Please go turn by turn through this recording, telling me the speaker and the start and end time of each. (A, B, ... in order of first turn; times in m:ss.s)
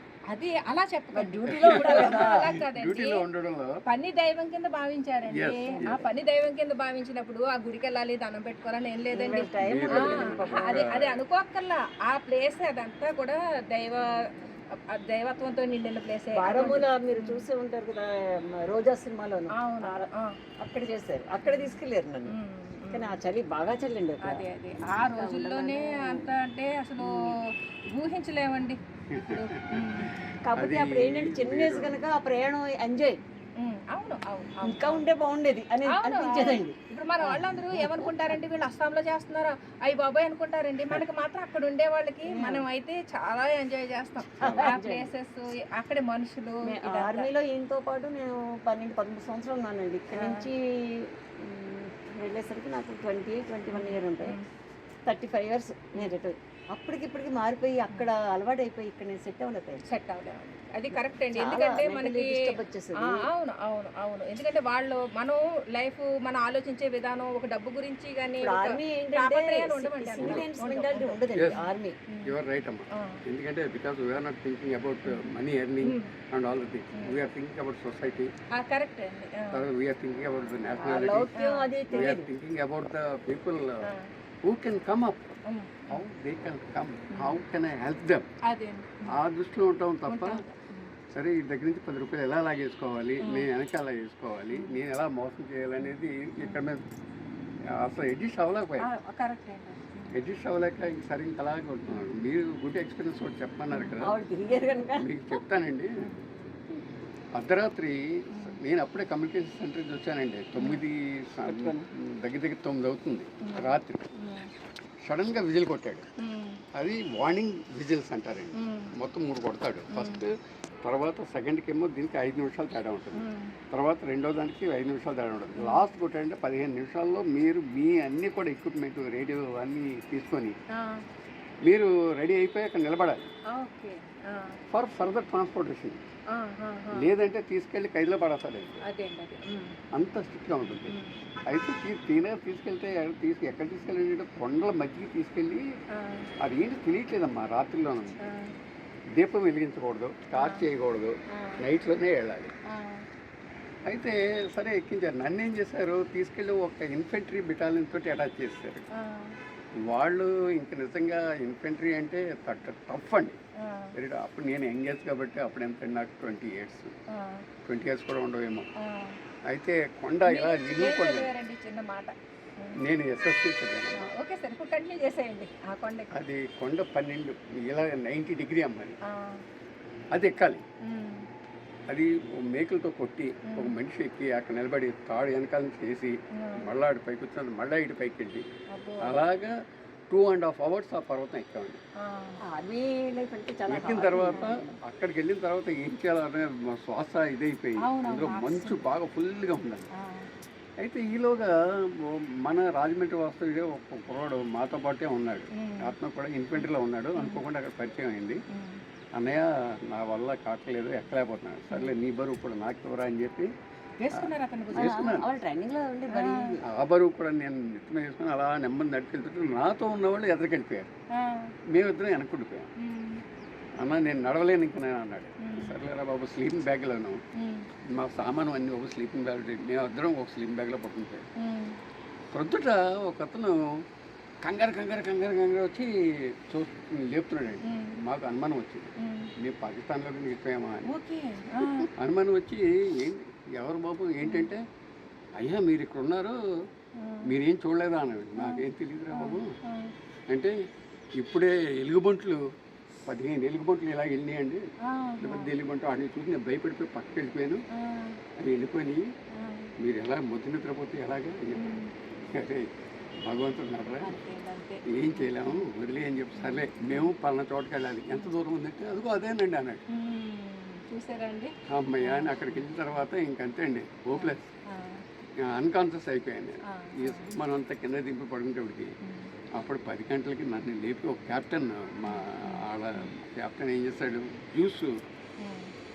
0:00.3-0:03.2 A
0:01.1-0:02.5 B
0:01.5-0:03.8 C
0:03.8-0:17.5 A
0:05.3-0:06.0 C
0:05.7-0:06.0 B
0:09.1-0:11.0 B
0:09.6-0:11.2 C
0:16.3-0:22.3 B
0:19.5-0:20.4 A
0:21.4-0:23.2 A
0:22.9-0:26.3 B
0:24.2-0:27.4 A
0:27.0-0:27.3 B
0:27.9-0:30.1 A
0:29.1-0:30.0 C
0:30.4-0:33.2 B
0:30.6-0:32.0 C
0:33.6-0:35.1 A
0:34.6-0:38.1 B
0:35.9-0:47.3 A
0:42.2-0:42.6 B
0:44.4-0:44.8 C
0:44.4-0:45.1 B
0:46.6-0:54.4 B
0:50.1-0:50.5 A
0:53.7-0:54.4 A
0:55.0-0:59.8 B
0:59.8-1:02.5 A
1:01.3-1:03.2 B
1:03.0-1:12.3 A
1:08.4-1:12.0 B
1:12.2-1:18.3 C
1:12.9-1:13.2 A
1:15.8-1:16.1 A
1:18.5-1:19.6 A
1:19.5-1:21.3 C
1:20.8-1:21.7 A
1:21.3-1:22.3 B
1:21.9-1:23.8 C
1:24.4-1:25.2 C
1:25.5-1:26.0 A
1:25.9-1:28.3 C
1:27.1-1:27.4 A
1:28.5-1:29.1 A
1:29.1-1:30.4 C
1:30.1-1:30.9 A
1:31.1-1:36.8 C
1:33.2-1:33.5 A
1:36.4-1:36.7 A
1:37.7-1:38.9 C
1:38.8-1:40.1 A
1:40.1-1:44.2 C
1:44.0-1:45.2 B
1:45.0-1:46.0 C
1:47.3-1:54.1 C
1:48.3-1:48.6 A
1:50.6-1:50.8 A
1:51.4-1:51.9 B
1:53.4-1:54.5 A
1:55.0-1:56.1 C
1:56.2-1:56.6 A
1:56.7-2:00.3 C
1:58.6-1:58.9 A
1:59.9-2:00.2 A
2:00.8-2:10.6 C
2:03.1-2:03.5 A
2:05.6-2:05.8 A
2:10.7-2:11.0 A
2:11.6-2:13.3 C
2:13.5-2:14.6 A
2:14.7-2:16.0 C
2:16.3-2:17.1 A
2:16.9-2:18.8 C
2:18.8-2:19.8 A
2:19.9-2:20.9 C
2:20.9-2:21.2 A
2:21.4-2:25.6 C
2:25.9-2:26.3 A
2:26.4-2:28.2 C
2:28.2-2:28.5 A
2:29.2-2:32.5 C
2:30.4-2:30.6 A
2:31.3-2:31.6 A
2:32.7-2:33.0 A
2:33.8-2:38.8 C
2:39.0-2:39.4 A
2:39.8-2:43.4 C
2:43.6-2:43.9 A
2:43.9-2:46.9 C
2:47.1-2:47.4 A
2:47.6-2:48.7 C
2:48.8-2:49.1 A
2:49.5-2:51.3 C
2:50.2-2:52.8 A
2:52.8-2:54.1 C
2:53.9-2:56.1 A
2:56.1-2:59.0 C
2:59.1-2:59.4 A
3:00.1-3:00.6 C
3:00.8-3:01.2 A
3:01.9-3:08.4 C
3:03.4-3:03.7 A
3:06.3-3:06.6 A
3:08.7-3:09.2 A
3:09.0-3:09.5 C
3:10.1-3:11.8 C
3:12.0-3:12.4 A
3:12.4-3:14.7 B
3:13.7-3:19.9 C
3:14.2-3:14.6 A
3:17.8-3:18.8 A
3:19.9-3:20.3 A
3:20.8-3:28.4 C
3:25.5-3:25.9 A
3:27.2-3:27.4 A
3:28.5-3:28.8 A
3:29.1-3:33.5 C
3:34.0-3:35.0 A
3:34.1-3:35.2 C
3:34.8-3:36.6 B
3:36.1-3:36.5 A
3:36.6-3:40.9 C
3:41.1-3:41.5 A
3:41.7-3:42.7 C
3:42.8-3:43.2 A
3:43.8-3:47.2 C
3:45.4-3:45.7 A
3:47.4-3:47.7 A
3:47.8-3:51.3 C
3:51.4-3:51.8 A
3:52.3-3:53.7 C
3:54.4-4:00.9 C
3:57.6-3:58.0 A
3:59.0-3:59.3 A
4:00.9-4:01.9 A
4:01.6-4:04.6 C
4:04.2-4:04.5 A
4:05.4-4:06.4 C
4:07.0-4:07.3 A
4:07.2-4:09.5 C
4:08.4-4:09.9 A
4:10.3-4:10.5 C
4:11.2-4:12.4 C
4:13.0-4:14.6 C
4:14.8-4:15.5 A
4:15.2-4:17.6 C
4:17.7-4:18.2 A
4:18.4-4:19.1 C
4:19.3-4:19.7 A
4:19.8-4:21.7 C
4:21.5-4:21.9 A
4:22.3-4:22.7 C
4:23.2-4:24.1 C
4:24.0-4:25.7 A
4:24.8-4:29.8 C
4:26.3-4:27.1 A
4:29.9-4:32.6 A
4:31.6-4:34.5 C
4:34.1-4:35.0 A
4:35.4-4:38.9 C
4:36.7-4:37.3 A
4:39.0-4:39.3 A
4:39.5-4:45.0 C
4:42.0-4:43.1 A
4:45.4-4:45.7 A